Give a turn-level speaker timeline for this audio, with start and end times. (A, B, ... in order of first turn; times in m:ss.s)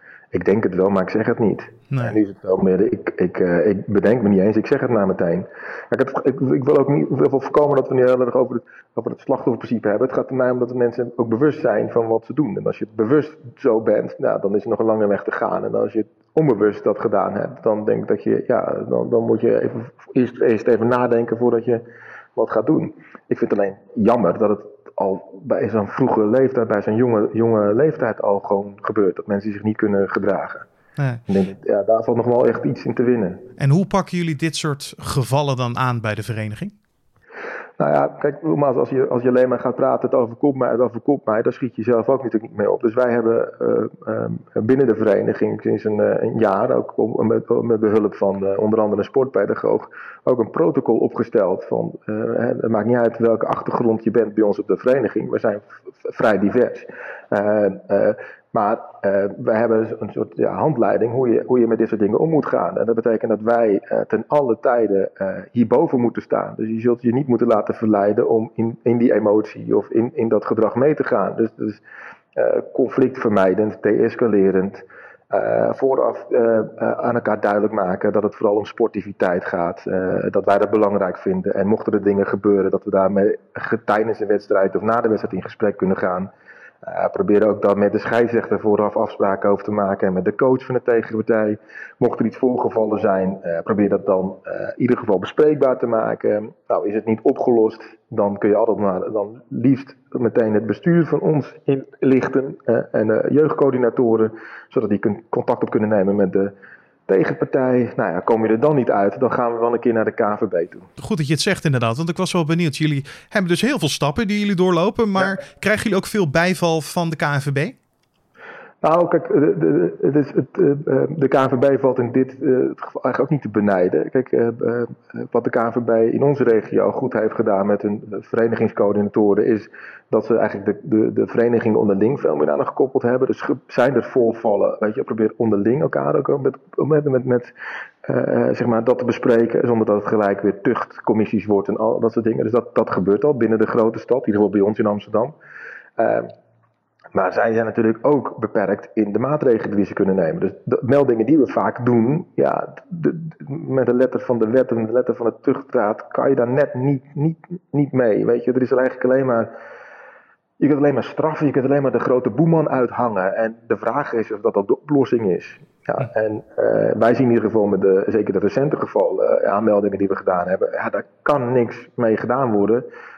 0:00.3-0:21.8 A
0:01.9-0:02.2 B
0:22.4-0:30.7 A
0:31.0-0:31.2 B
0:31.3-0:33.5 A
0:33.6-0:36.7 B
0:37.8-1:11.8 A
1:12.4-1:26.3 A
1:26.8-1:46.5 A
1:47.1-1:50.9 A
1:51.0-1:57.8 B
1:58.8-2:17.5 A
2:18.0-2:25.4 A
2:26.0-2:26.3 A
2:27.1-2:39.5 A
2:40.6-2:52.9 A